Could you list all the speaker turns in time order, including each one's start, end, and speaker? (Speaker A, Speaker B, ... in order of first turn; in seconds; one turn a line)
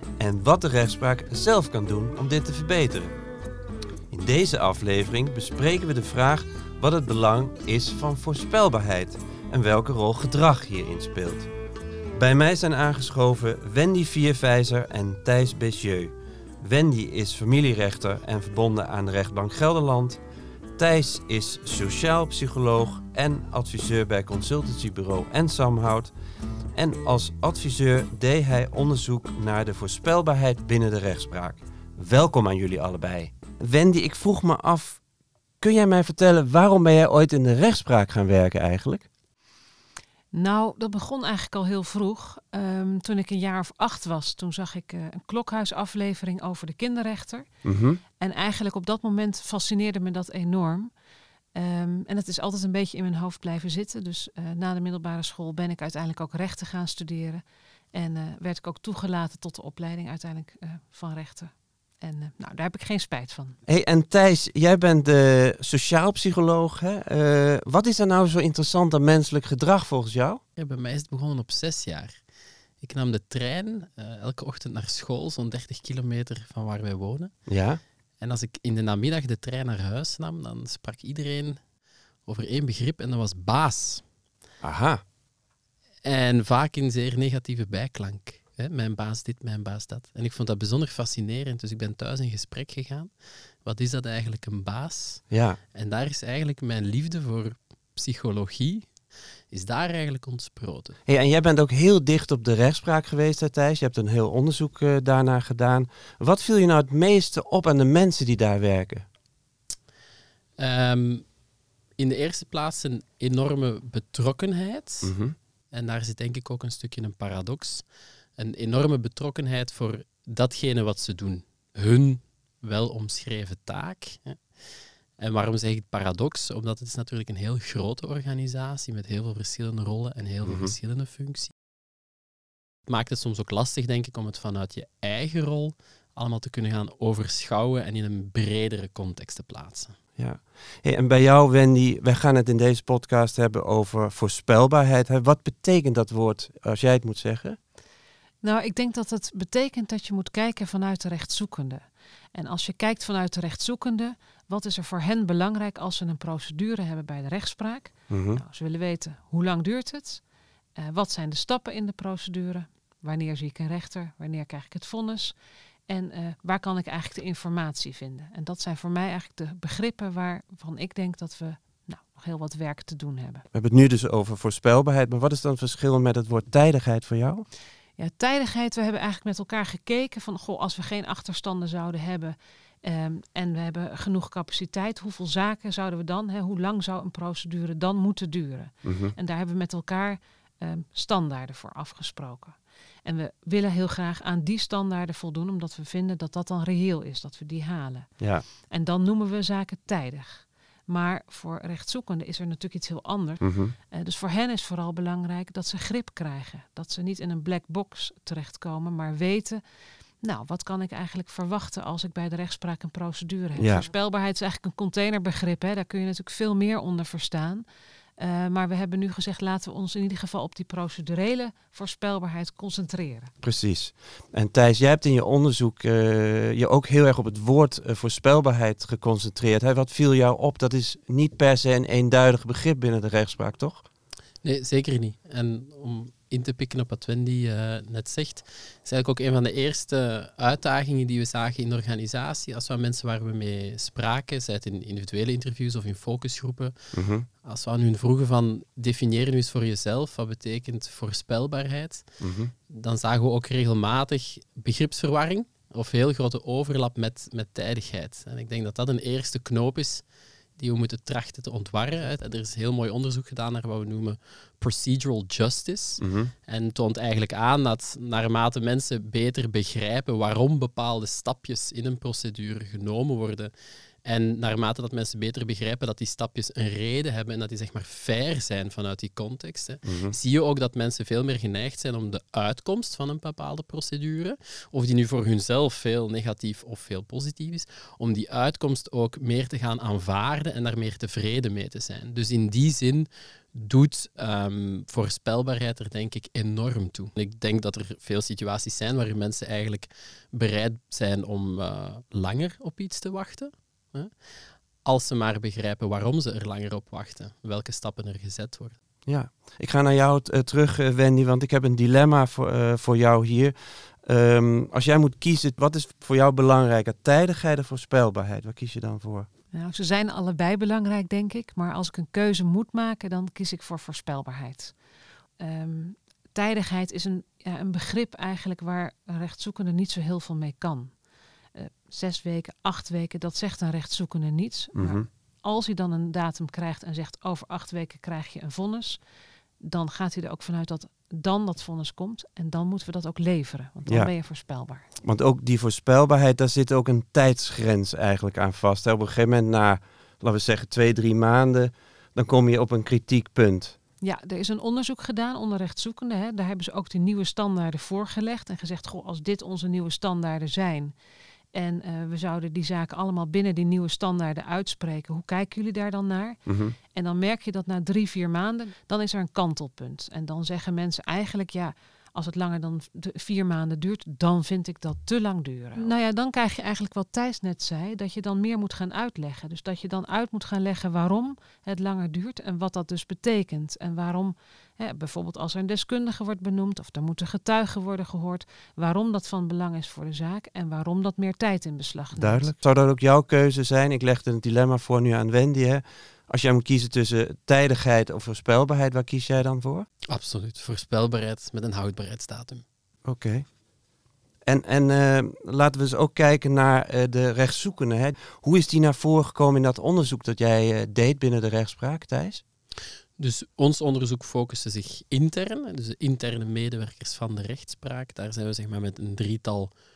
Speaker A: 0.2-3.1
Speaker A: 4.1-11.5
Speaker A: 12.2-20.2
Speaker A: 20.8-26.1
Speaker A: 26.8-35.0
Speaker A: 35.6-39.0
Speaker B: 40.3-47.5
Speaker A: 47.6-48.0
Speaker B: 48.2-50.9
Speaker B: 51.5-57.4
Speaker B: 57.9-63.6
Speaker A: 63.7-70.4
Speaker C: 70.6-72.2
Speaker C: 72.8-77.3
Speaker A: 77.5-77.8
Speaker C: 78.2-81.6
Speaker C: 82.3-84.0
Speaker A: 84.6-85.0
Speaker C: 86.0-93.1
Speaker C: 93.6-98.9
Speaker A: 95.3-95.6
Speaker C: 99.5-101.0
Speaker A: 101.1-109.1
Speaker C: 110.6-111.3
Speaker C: 112.0-115.1
Speaker A: 115.0-115.3
Speaker C: 115.7-117.8
Speaker C: 118.4-124.4
Speaker C: 125.2-131.5
Speaker A: 130.4-130.7
Speaker C: 132.9-140.0
Speaker A: 140.2-147.6
Speaker B: 148.4-160.2
Speaker A: 158.1-158.4
Speaker B: 160.8-165.3
Speaker B: 165.9-173.4
Speaker A: 173.5-177.4
Speaker B: 178.0-198.1
Speaker A: 188.8-189.1
Speaker A: 198.2-198.4
Speaker B: 198.7-209.6
Speaker A: 203.4-203.7
Speaker B: 210.2-217.7
Speaker A: 213.6-213.8
Speaker B: 218.2-223.3
Speaker A: 223.4-233.8
Speaker C: 234.4-246.8
Speaker A: 246.9-247.2
Speaker C: 247.4-252.1
Speaker A: 252.2-252.5
Speaker C: 252.7-260.0
Speaker C: 260.6-273.5
Speaker A: 266.0-266.3
Speaker C: 274.1-304.1
Speaker A: 279.8-280.1
Speaker C: 304.8-308.8
Speaker A: 309.1-319.3
Speaker B: 319.5-324.8
Speaker B: 325.4-330.9
Speaker B: 331.6-339.0
Speaker A: 334.8-335.1
Speaker B: 339.6-344.9
Speaker A: 343.9-344.1
Speaker A: 345.0-353.8
Speaker B: 354.0-360.9
Speaker B: 361.5-366.4
Speaker A: 366.5-366.8
Speaker B: 366.9-392.5
Speaker A: 392.1-399.9
Speaker C: 400.1-402.6
Speaker A: 403.1-403.4
Speaker A: 404.4-412.4
Speaker C: 413.2-419.7